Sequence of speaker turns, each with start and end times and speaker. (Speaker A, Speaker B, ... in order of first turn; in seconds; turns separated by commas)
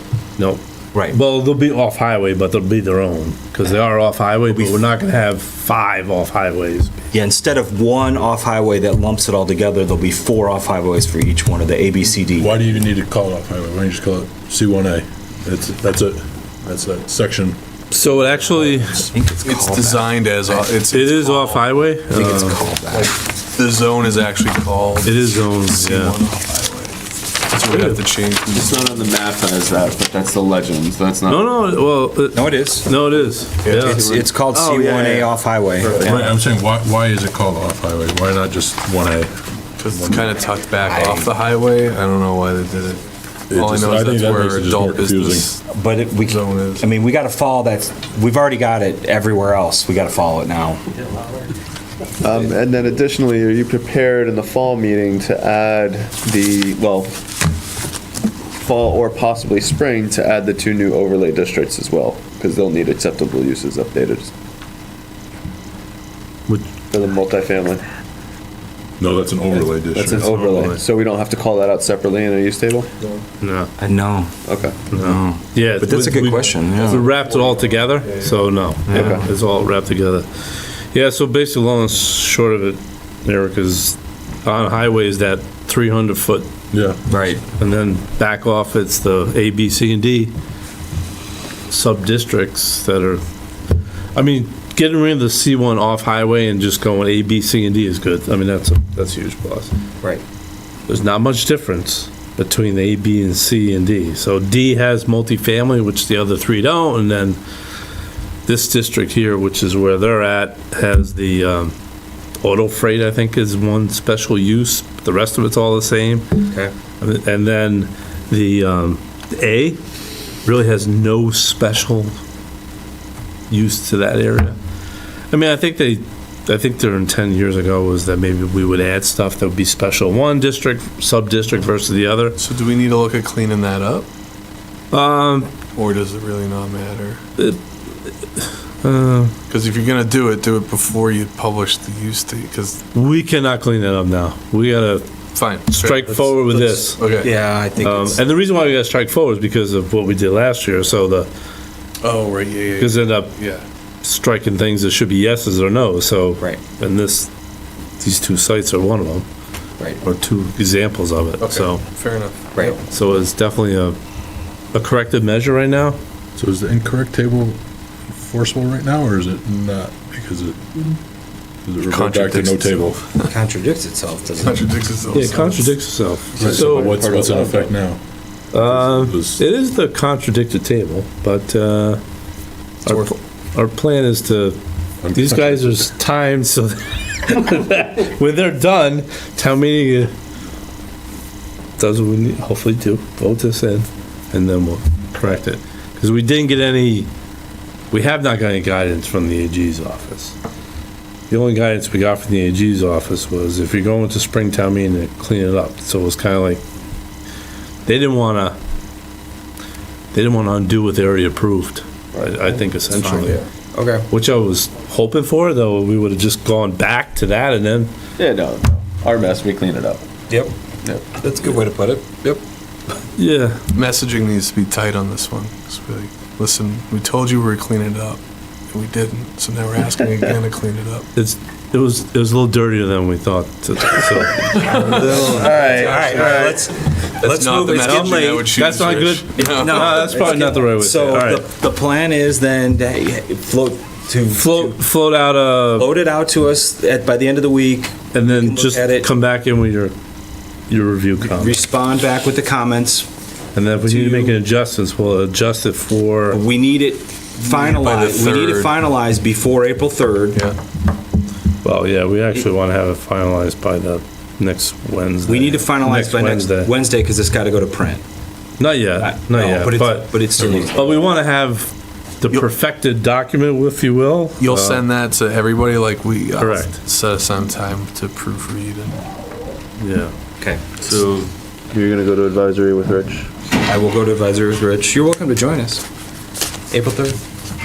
Speaker A: 0.4-7.0, Speaker B: 7.1-12.5, Speaker C: 12.4-17.6, Speaker A: 17.9-19.1, Speaker B: 18.9-20.7, Speaker D: 19.4-21.7, Speaker A: 20.9-22.6, Speaker B: 22.1-23.1, Speaker D: 22.9-28.9, Speaker A: 25.0-26.2, Speaker A: 27.7-28.0, Speaker E: 28.5-31.5, Speaker F: 29.0-31.1, Speaker A: 31.3-34.1, Speaker B: 32.3-33.0, Speaker D: 33.6-34.2, Speaker B: 33.7-36.3, Speaker F: 34.8-35.2, Speaker C: 35.8-40.4, Speaker D: 39.8-45.6, Speaker B: 40.8-41.3, Speaker C: 43.5-45.5, Speaker B: 45.7-50.8, Speaker D: 46.2-46.9, Speaker F: 52.2-57.1, Speaker F: 58.6-64.3, Speaker F: 66.9-67.8, Speaker C: 69.0-70.3, Speaker E: 70.0-70.8, Speaker F: 70.0-72.9, Speaker A: 70.1-70.8, Speaker E: 71.9-72.2, Speaker A: 73.4-73.7, Speaker B: 73.8-77.1, Speaker F: 74.4-74.8, Speaker A: 74.9-86.5, Speaker B: 78.9-79.2, Speaker C: 86.7-87.0, Speaker B: 87.1-87.4, Speaker A: 87.4-90.3, Speaker A: 91.7-93.2, Speaker A: 94.1-99.7, Speaker A: 100.9-107.4, Speaker A: 108.5-111.7, Speaker A: 112.4-119.8, Speaker A: 120.4-122.2, Speaker A: 123.5-124.6, Speaker A: 125.3-132.4, Speaker D: 132.4-134.1, Speaker A: 134.9-135.5, Speaker D: 135.7-137.2, Speaker A: 137.4-139.3, Speaker D: 139.5-142.8, Speaker A: 142.9-145.1, Speaker D: 145.3-147.3, Speaker A: 145.7-147.0, Speaker B: 147.1-148.2, Speaker A: 147.8-151.3, Speaker D: 152.0-153.6, Speaker A: 152.8-153.3, Speaker A: 154.0-157.3, Speaker A: 158.0-159.2, Speaker A: 160.0-161.8, Speaker D: 161.4-162.5, Speaker A: 162.6-164.0, Speaker A: 164.7-166.0, Speaker C: 166.3-170.7, Speaker C: 171.6-173.1, Speaker D: 171.8-173.3, Speaker B: 173.2-174.6, Speaker D: 174.4-175.8, Speaker A: 175.1-177.0, Speaker C: 176.3-178.0, Speaker E: 176.4-177.7, Speaker F: 176.7-177.2, Speaker C: 178.5-179.4, Speaker A: 178.5-182.0, Speaker D: 182.8-183.1, Speaker A: 182.8-184.6, Speaker C: 185.0-185.6, Speaker A: 185.1-190.1, Speaker A: 191.8-197.1, Speaker A: 197.9-200.3, Speaker A: 201.3-206.6, Speaker A: 207.8-208.6, Speaker A: 210.1-213.4, Speaker B: 212.9-214.1, Speaker A: 214.1-217.9, Speaker F: 218.2-220.0, Speaker B: 220.3-220.5, Speaker B: 221.1-222.4, Speaker A: 223.2-223.6, Speaker D: 223.7-228.2, Speaker D: 228.7-231.1, Speaker A: 231.1-235.4, Speaker D: 234.5-236.7, Speaker B: 234.7-238.6, Speaker E: 235.1-235.4, Speaker F: 235.4-235.9, Speaker E: 236.0-236.4, Speaker D: 237.2-240.3, Speaker A: 237.8-241.4, Speaker B: 239.4-244.8, Speaker A: 244.3-245.9, Speaker B: 245.7-249.1, Speaker A: 248.1-249.9, Speaker A: 250.7-251.6, Speaker B: 251.2-253.1, Speaker A: 253.5-256.4, Speaker D: 253.9-254.2, Speaker B: 254.1-254.3, Speaker B: 256.3-260.4, Speaker D: 257.4-258.7, Speaker A: 261.6-266.7, Speaker B: 265.2-268.0, Speaker A: 268.6-274.8, Speaker B: 269.1-271.0, Speaker D: 274.4-279.0, Speaker A: 276.4-276.8, Speaker A: 279.8-280.1, Speaker B: 280.4-280.9, Speaker D: 280.8-281.2, Speaker F: 281.7-283.1, Speaker E: 282.2-283.1, Speaker B: 283.5-285.8, Speaker B: 286.7-287.2